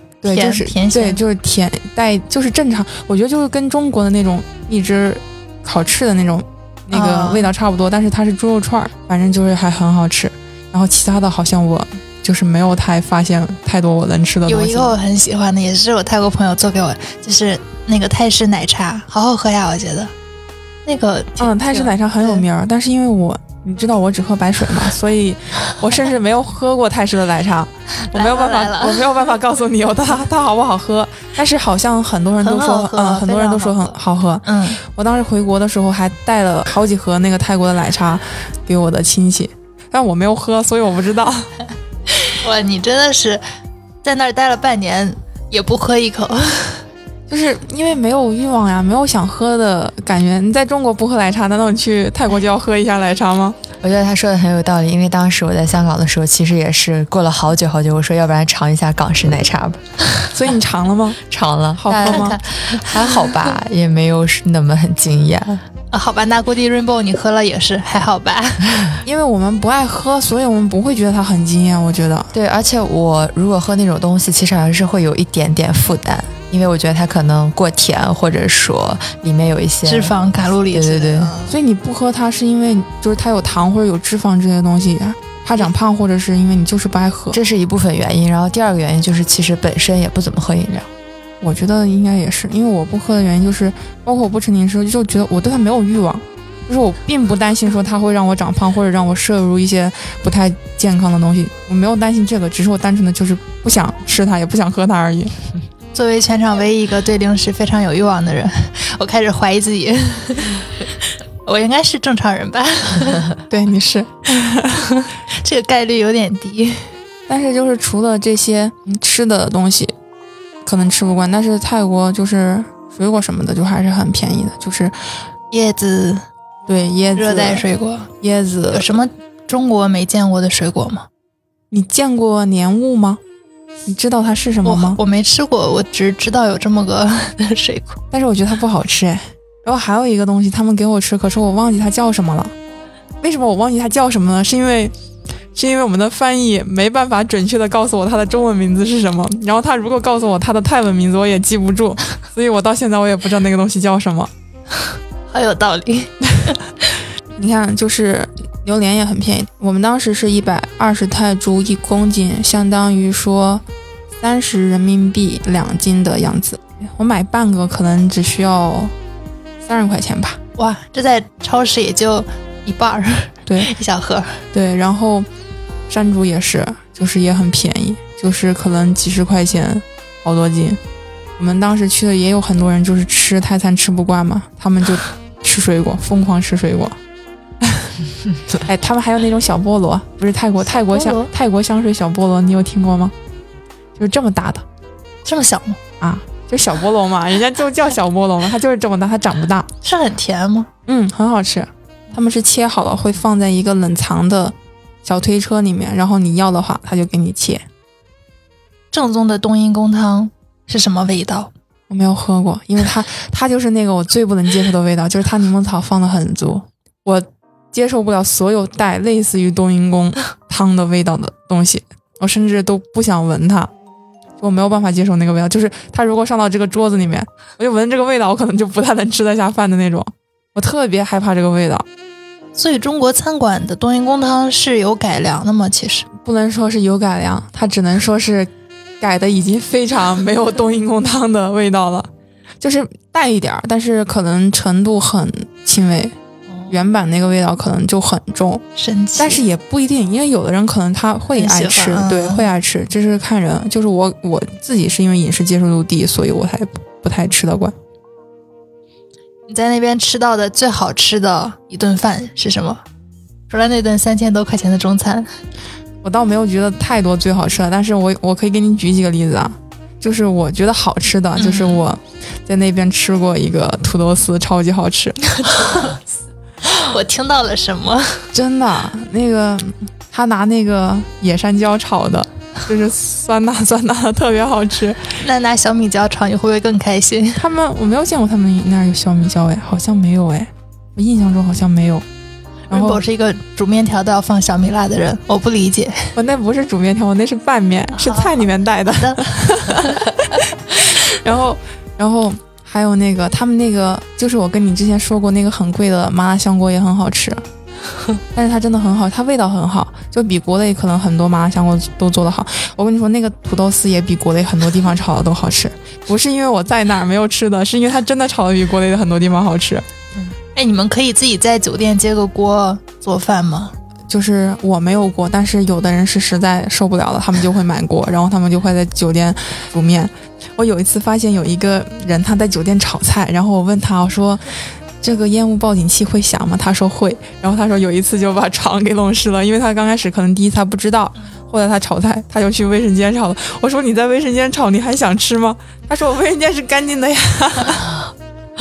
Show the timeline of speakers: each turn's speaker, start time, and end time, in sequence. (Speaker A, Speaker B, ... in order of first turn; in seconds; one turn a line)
Speaker A: 0.2-14.9
Speaker B: 0.2-1.2
Speaker B: 6.9-7.5
Speaker B: 14.5-20.1
Speaker B: 20.9-22.4
Speaker A: 21.4-41.5
Speaker B: 28.1-29.1
Speaker B: 32.4-33.9
Speaker B: 34.4-34.8
Speaker B: 42.2-43.4
Speaker B: 44.0-46.9
Speaker A: 47.3-53.6
Speaker C: 53.8-59.8
Speaker A: 60.3-61.2
Speaker C: 61.3-65.6
Speaker A: 61.8-62.4
Speaker B: 62.1-63.5
Speaker B: 65.9-68.7
Speaker A: 69.0-72.3
Speaker C: 72.3-80.1
Speaker B: 79.8-81.5
Speaker C: 80.7-81.3
Speaker A: 81.5-87.4
Speaker C: 87.3-90.9
Speaker A: 91.4-105.3
Speaker B: 105.9-110.9
Speaker B: 111.4-113.3
Speaker A: 113.5-114.7
Speaker B: 114.9-116.9
Speaker A: 117.3-119.9
Speaker A: 120.6-124.9
Speaker B: 125.5-126.2
Speaker A: 126.7-127.6
Speaker B: 127.2-128.1
Speaker A: 128.2-128.9
Speaker B: 128.7-131.1
Speaker A: 131.7-133.2
Speaker A: 133.9-135.0
Speaker B: 134.6-138.0
Speaker A: 138.1-142.5
Speaker A: 143.2-144.9
Speaker A: 145.5-154.3
Speaker B: 155.3-156.6
Speaker A: 157.4-163.6
Speaker A: 164.2-168.9
Speaker A: 169.6-170.4
Speaker B: 170.6-174.4
Speaker A: 174.5-175.3
Speaker A: 175.9-180.8
Speaker A: 181.4-187.0
Speaker A: 188.5-193.1
Speaker B: 190.8-191.3
Speaker A: 193.9-194.6
Speaker B: 195.2-195.8
Speaker A: 196.0-199.7
Speaker B: 199.8-200.7
Speaker A: 200.9-207.6
Speaker B: 208.9-211.5
Speaker A: 211.9-223.7
Speaker A: 224.4-231.8
Speaker B: 232.5-236.1
Speaker A: 236.2-242.1
Speaker A: 242.6-246.1
Speaker B: 246.5-246.8
Speaker A: 246.7-248.6
Speaker B: 248.8-249.4
Speaker A: 249.2-257.7
Speaker B: 251.3-252.4
Speaker B: 259.5-262.8
Speaker B: 263.5-265.3
Speaker A: 266.0-275.2
Speaker B: 271.4-271.8
Speaker B: 275.4-276.0
Speaker B: 276.7-278.3
Speaker A: 278.3-285.2
Speaker B: 285.2-287.4
Speaker A: 287.4-292.1
Speaker A: 292.7-293.0
Speaker B: 292.7-296.1
Speaker A: 296.1-307.4
Speaker B: 297.9-300.0
Speaker A: 308.3-319.9
Speaker B: 320.5-323.7
Speaker A: 324.1-347.9